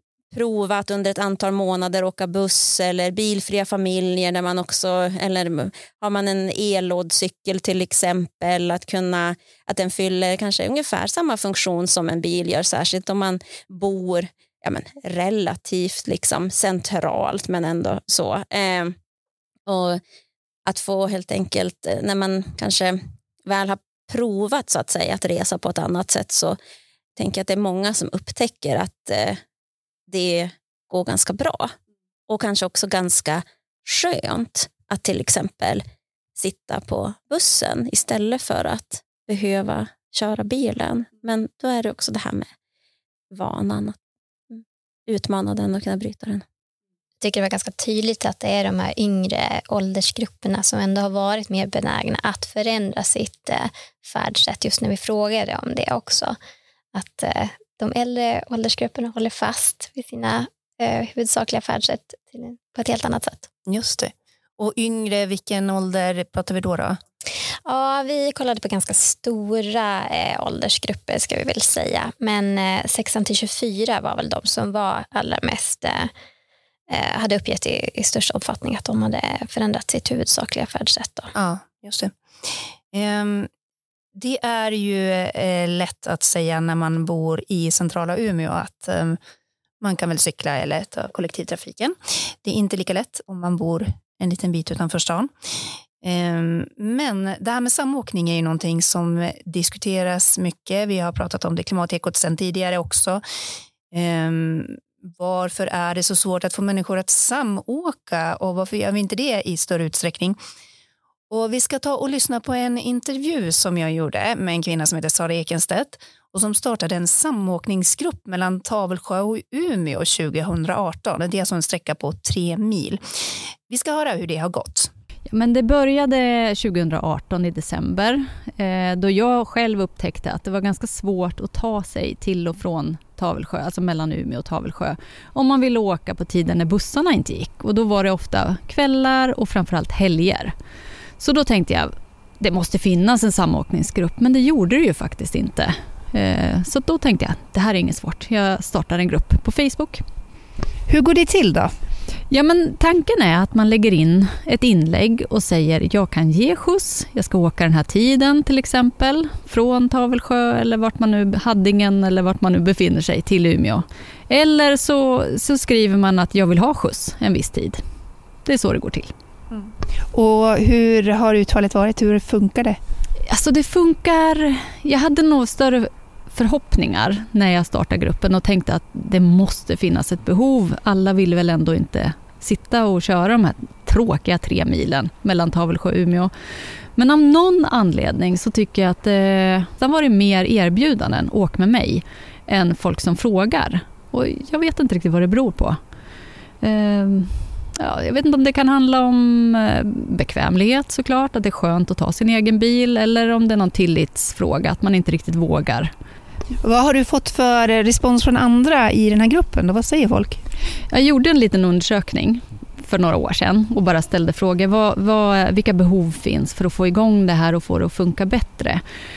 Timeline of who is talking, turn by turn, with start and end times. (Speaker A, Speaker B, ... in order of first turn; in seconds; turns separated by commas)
Speaker A: 0.3-18.9, Speaker A: 19.6-20.0, Speaker A: 20.6-26.6, Speaker A: 27.1-29.4, Speaker A: 30.1-31.7, Speaker A: 32.3-35.8, Speaker A: 36.4-42.5, Speaker A: 43.3-44.0, Speaker A: 44.5-46.4, Speaker B: 47.2-56.4, Speaker B: 56.9-63.5, Speaker C: 63.7-67.0, Speaker B: 67.6-76.1, Speaker B: 76.9-81.3, Speaker C: 81.3-83.5, Speaker C: 84.1-89.2, Speaker C: 89.8-95.3, Speaker C: 96.0-103.2, Speaker C: 103.9-110.4, Speaker C: 111.3-123.0, Speaker C: 123.7-124.9, Speaker D: 125.3-140.5, Speaker D: 141.2-150.0, Speaker C: 150.9-151.7, Speaker D: 152.3-167.8, Speaker D: 168.4-169.1, Speaker C: 169.5-172.8, Speaker D: 173.3-186.3, Speaker D: 186.9-195.8, Speaker D: 196.6-205.9, Speaker C: 206.6-210.4, Speaker D: 210.9-218.8